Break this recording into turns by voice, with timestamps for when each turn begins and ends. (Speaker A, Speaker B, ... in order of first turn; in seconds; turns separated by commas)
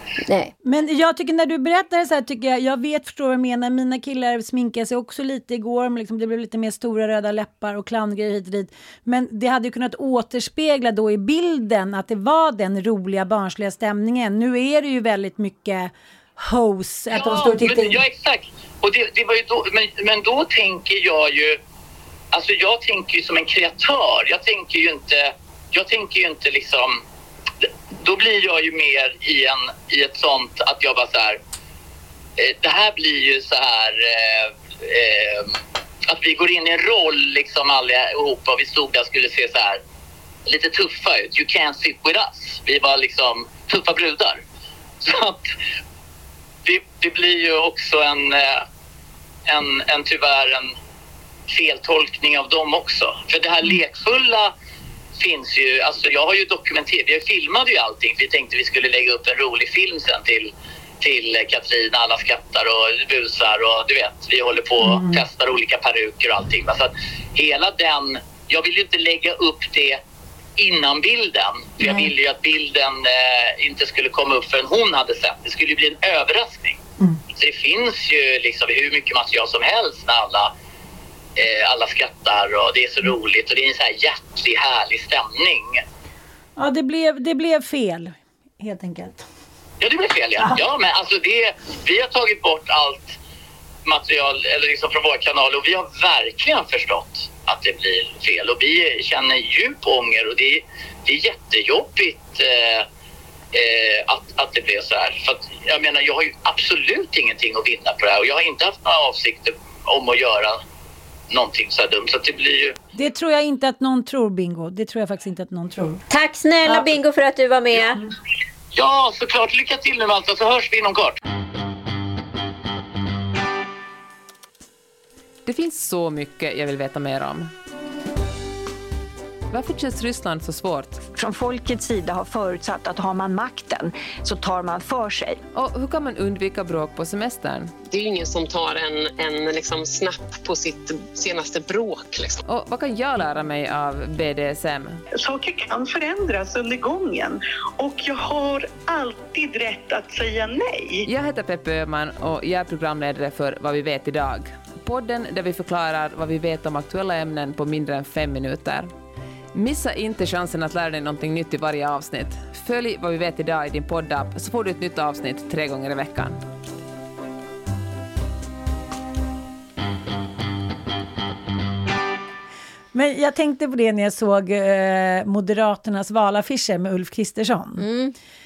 Speaker A: 0.3-0.5, Speaker B: 0.6-18.0, Speaker C: 17.1-21.6, Speaker C: 22.3-27.0, Speaker C: 28.0-31.4, Speaker C: 32.4-35.5, Speaker C: 36.1-39.8, Speaker C: 40.5-44.4, Speaker C: 45.0-45.5, Speaker C: 46.6-48.7, Speaker C: 49.5-50.7, Speaker C: 51.5-54.5, Speaker C: 55.2-70.0, Speaker B: 64.8-65.2, Speaker C: 70.6-76.8, Speaker B: 71.8-72.1, Speaker C: 77.4-80.5, Speaker C: 81.4-85.8, Speaker B: 86.6-89.3, Speaker C: 89.8-93.2, Speaker C: 93.8-102.9, Speaker C: 103.5-110.6, Speaker C: 111.3-112.8, Speaker B: 113.0-116.0, Speaker A: 116.1-118.0, Speaker C: 118.7-121.2, Speaker D: 125.5-127.5, Speaker D: 129.5-131.0, Speaker E: 131.1-135.4, Speaker D: 135.5-137.7, Speaker F: 137.8-142.4, Speaker D: 142.5-145.0, Speaker G: 145.2-151.1, Speaker D: 151.1-158.9, Speaker D: 159.5-166.4, Speaker B: 172.9-177.8, Speaker A: 177.8-178.2